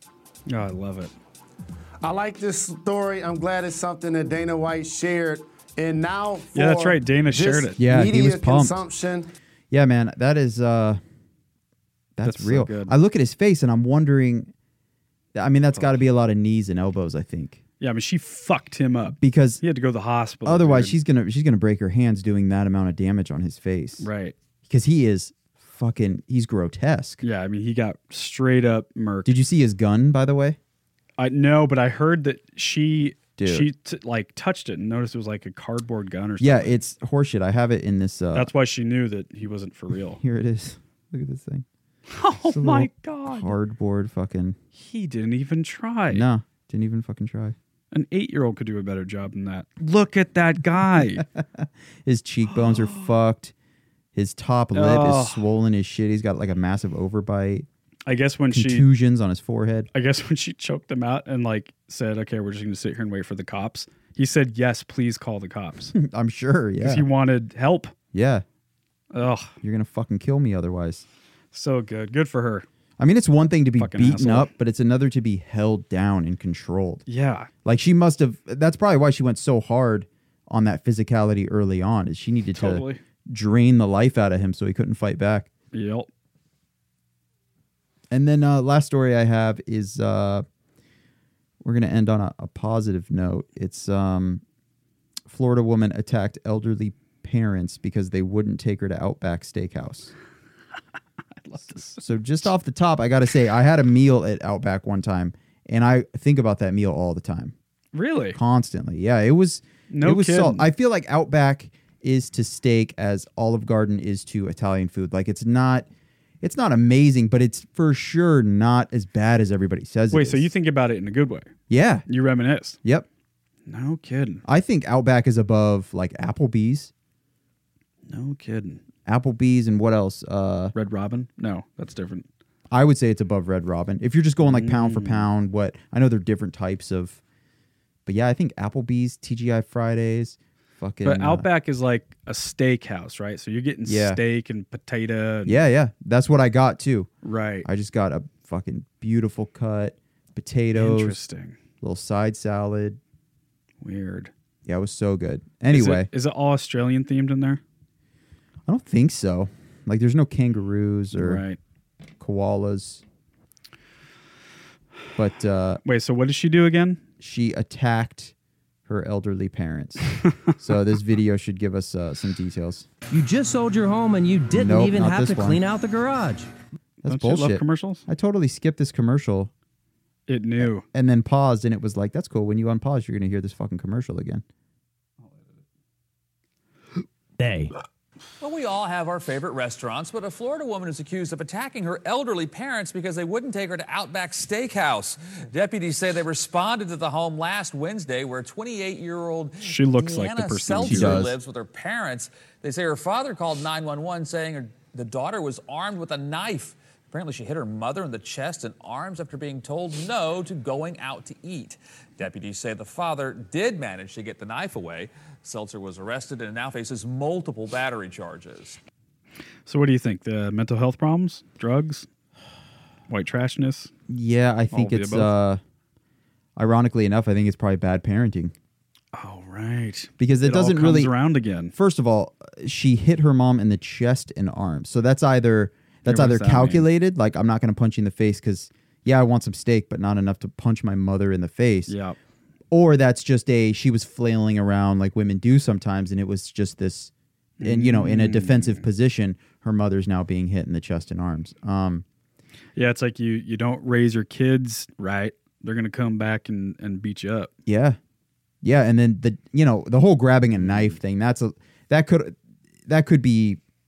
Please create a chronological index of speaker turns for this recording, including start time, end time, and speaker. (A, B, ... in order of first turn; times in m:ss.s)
0:00.5-0:01.1 A
0:02.0-0:09.3 B
0:06.5-0:07.8 A
0:07.8-0:08.8 C
0:09.7-0:11.0 C
0:12.2-0:14.5 C
0:12.2-0:12.9 A
0:15.3-0:17.6 C
0:15.7-0:16.0 A
0:17.8-0:21.0 A
0:19.2-0:19.6 C
0:20.4-0:24.1 C
0:24.0-0:24.3 A
0:24.7-0:27.2 C
0:27.2-0:29.3 A
0:29.2-0:30.6 C
0:31.2-0:36.8 A
0:33.4-0:33.7 C
0:36.4-0:38.5 C
0:38.3-0:40.2 A
0:40.2-0:41.6 C
0:42.1-0:43.6 A
0:42.4-0:44.6 C
0:44.7-0:46.3 A
0:46.1-0:47.6 C
0:47.9-0:51.2 A
0:51.2-0:53.5 C
0:52.5-0:53.1 A
0:54.1-0:57.7 C
0:54.7-0:55.4 A
0:58.1-0:58.9 A
0:58.5-0:59.9 C
0:59.9-1:05.9 A
1:05.9-1:07.1 C
1:06.8-1:07.9 A
1:08.1-1:08.4 C
1:09.1-1:09.5 A
1:09.6-1:11.0 C
1:11.5-1:12.6 A
1:13.0-1:17.0 C
1:13.8-1:14.5 A
1:17.1-1:17.5 A
1:17.6-1:25.5 C
1:22.5-1:23.0 A
1:25.7-1:26.1 A
1:28.1-1:30.4 C
1:31.6-1:34.4 C
1:35.3-1:40.1 C
1:41.4-1:42.5 A
1:42.0-1:47.5 C
1:47.9-1:48.4 A
1:48.3-1:55.9 C
1:49.9-1:50.7 A
1:56.4-2:00.4 C
2:00.1-2:01.5 A
2:01.7-2:02.0 C
2:02.1-2:02.8 A
2:03.7-2:04.4 A
2:04.4-2:06.9 C
2:08.1-2:08.8 A
2:09.0-2:10.7 C
2:10.7-2:12.2 A
2:12.7-2:17.2 C
2:14.4-2:15.3 A
2:18.0-2:21.4 C
2:21.0-2:25.6 A
2:23.8-2:24.2 C
2:25.4-2:27.1 C
2:27.2-2:27.7 A
2:27.6-2:31.2 C
2:30.7-2:31.6 A
2:31.8-2:33.0 C
2:33.8-2:34.3 A
2:34.6-2:36.1 C
2:35.7-2:37.6 A
2:38.7-2:41.4 C
2:41.2-2:41.6 A
2:42.2-2:43.0 C
2:45.2-2:45.8 C
2:45.8-2:47.0 A
2:47.2-2:48.3 C
2:48.9-2:52.9 C
2:53.1-2:56.5 D
2:54.5-2:55.6 C
2:57.0-2:59.5 C
2:57.0-2:58.0 A
3:00.3-3:00.8 A
3:00.6-3:04.4 C
3:07.4-3:07.7 D
3:08.4-3:38.8 E
3:19.6-3:21.2 A
3:20.8-3:21.4 C
3:39.6-3:42.0 A
3:43.1-3:43.9 A
3:44.1-3:45.6 C
3:44.7-3:45.3 A
3:46.6-3:48.5 C
3:49.1-3:51.7 A
3:50.2-3:51.1 C
3:51.7-4:01.9 C
3:56.0-3:56.9 A
4:01.9-4:02.2 A
4:02.7-4:07.1 C
4:07.6-4:08.8 A
4:07.6-4:12.0 C
4:12.8-4:17.5 A
4:17.6-4:18.0 C
4:18.6-4:22.4 C
4:20.6-4:21.0 A
4:22.9-4:23.6 C